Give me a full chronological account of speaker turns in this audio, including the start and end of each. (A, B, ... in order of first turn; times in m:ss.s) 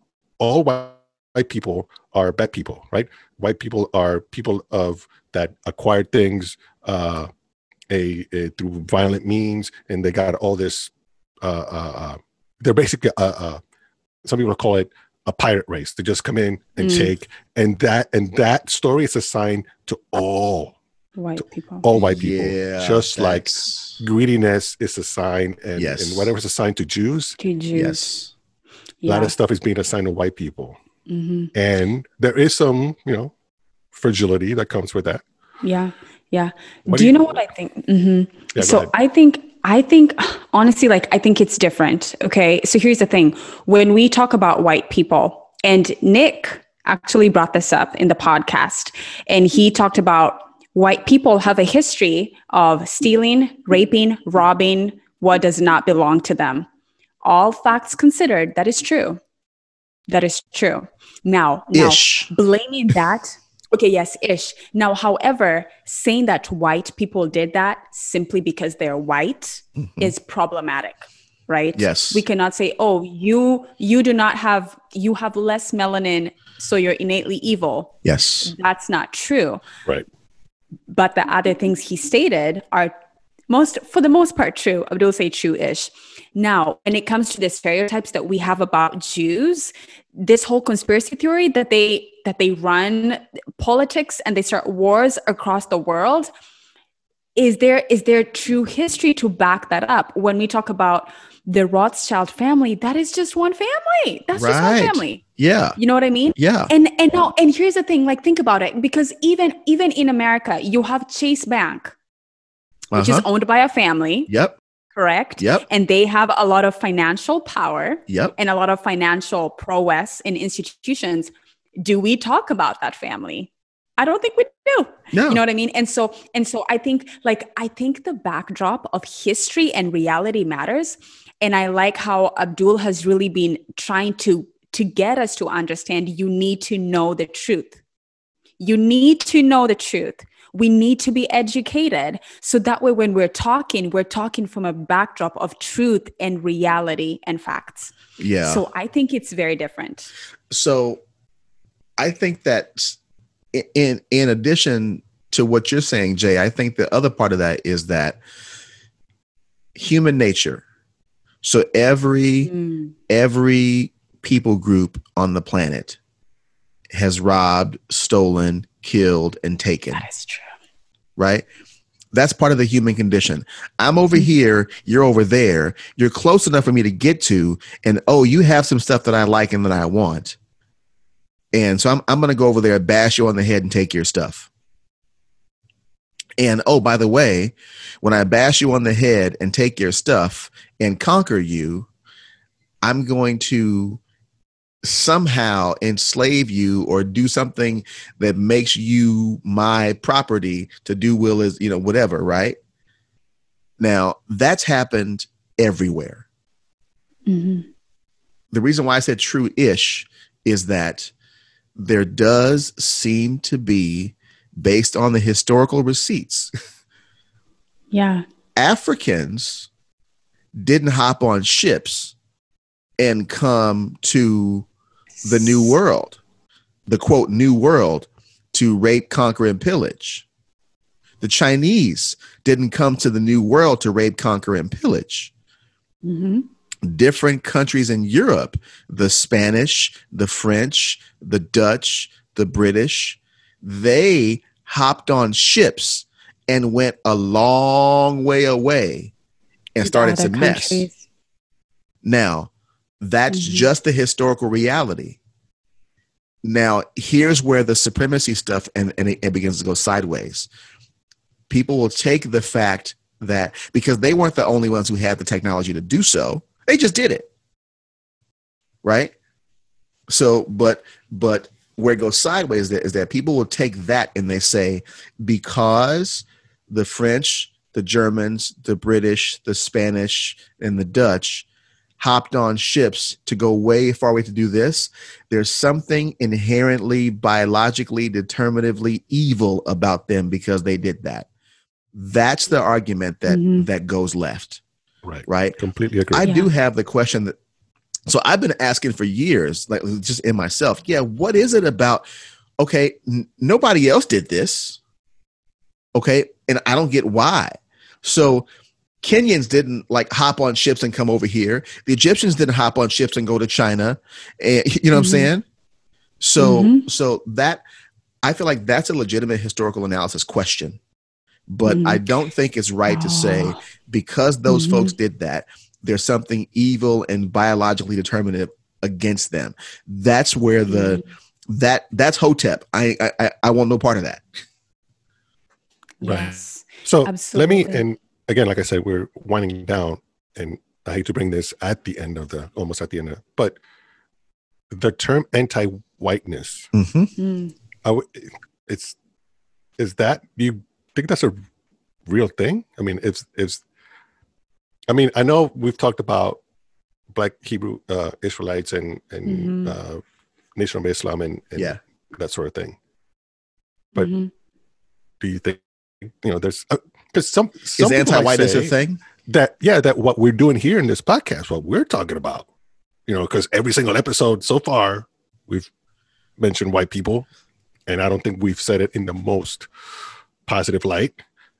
0:00.4-0:07.3 A
0:07.9-0:10.9 A
0:11.4-0:13.6 A
0:14.2-0:20.7 A
0:16.8-0:17.1 B
0:21.2-0:21.8 B
0:21.8-0:27.4 A
0:21.9-0:24.0 C
0:25.8-0:26.3 C
0:27.4-0:28.1 B
0:27.7-0:28.3 C
0:29.0-0:29.3 B
0:29.0-0:30.8 A
0:31.1-0:31.5 B
0:31.5-0:33.3 A
0:33.9-0:35.2 A
0:35.6-0:56.7 B
0:36.9-0:37.4 A
0:38.5-0:38.9 A
0:57.2-0:59.2 B
1:00.1-1:17.9 B
1:01.7-1:02.3 C
1:09.8-1:10.1 C
1:11.7-1:12.2 C
1:18.0-1:18.5 C
1:18.4-1:19.6 B
1:20.9-1:22.9 B
1:23.5-1:36.3 B
1:37.4-1:45.2 B
1:44.3-1:45.8 C
1:45.8-1:51.9 B
1:46.4-1:46.7 C
1:52.9-1:53.2 C
1:53.0-1:54.3 B
1:54.3-1:54.6 C
1:54.9-2:17.8 B
1:55.4-1:55.6 C
1:58.1-1:58.3 C
2:05.1-2:05.4 C
2:18.6-2:30.1 B
2:28.2-2:28.6 C
2:30.5-2:31.0 C
2:32.0-2:33.0 C
2:33.5-2:38.2 C
2:39.7-2:40.6 C
2:41.4-2:42.5 C
2:42.4-2:42.9 B
2:43.1-2:46.0 C
2:46.9-2:50.0 C
2:49.9-2:50.5 B
2:51.2-2:51.4 C
2:52.1-3:00.4 C
3:01.5-3:04.5 C
3:06.4-3:11.9 C
3:12.8-3:14.0 C
3:14.8-3:22.6 C
3:23.8-3:26.2 C
3:27.3-3:27.7 B
3:28.5-3:31.1 C
3:31.8-3:36.5 C
3:37.9-3:38.2 B
3:38.6-3:39.7 C
3:40.5-3:42.1 C
3:43.0-3:44.7 C
3:45.2-3:46.2 C
3:46.9-3:50.2 C
3:51.2-3:55.3 C
3:56.0-3:56.5 B
3:56.8-4:09.1 C
4:09.8-4:10.9 C
4:09.8-4:11.0 B
4:12.0-4:15.2 C
4:13.3-4:13.7 B
4:16.4-4:20.5 C
4:21.5-4:27.3 C
4:28.8-4:29.1 C
4:30.1-4:41.4 C
4:42.0-4:51.3 C
4:51.9-4:54.6 C
4:53.3-4:53.7 B
4:55.0-4:56.2 A
4:55.3-4:55.6 C
4:56.1-4:57.3 C
4:56.2-4:56.5 B
4:58.1-5:02.0 C
5:02.6-5:04.8 C
5:05.9-5:08.4 C
5:09.0-5:15.4 C
5:14.9-5:15.3 B
5:16.2-5:17.6 C
5:16.4-5:16.8 B
5:18.2-5:20.8 C
5:21.5-5:34.2 C
5:21.6-5:22.0 B
5:22.9-5:23.6 B
5:24.5-5:24.9 B
5:30.7-5:31.0 B
5:36.0-5:37.8 B
5:36.0-5:43.6 A
5:44.7-5:46.7 A
5:46.7-5:47.1 C
5:47.2-5:47.5 B
5:47.8-5:49.0 A
5:49.8-5:51.3 A
5:52.1-5:53.6 A
5:54.9-5:56.4 A
5:57.1-6:00.0 A
5:59.2-5:59.7 B
6:00.6-6:02.8 A
6:04.0-6:04.3 B
6:05.2-6:08.7 A
6:07.8-6:09.0 C
6:09.3-6:12.4 A
6:13.1-6:15.7 A
6:16.4-6:17.2 A
6:17.9-6:19.7 A
6:20.4-6:21.2 A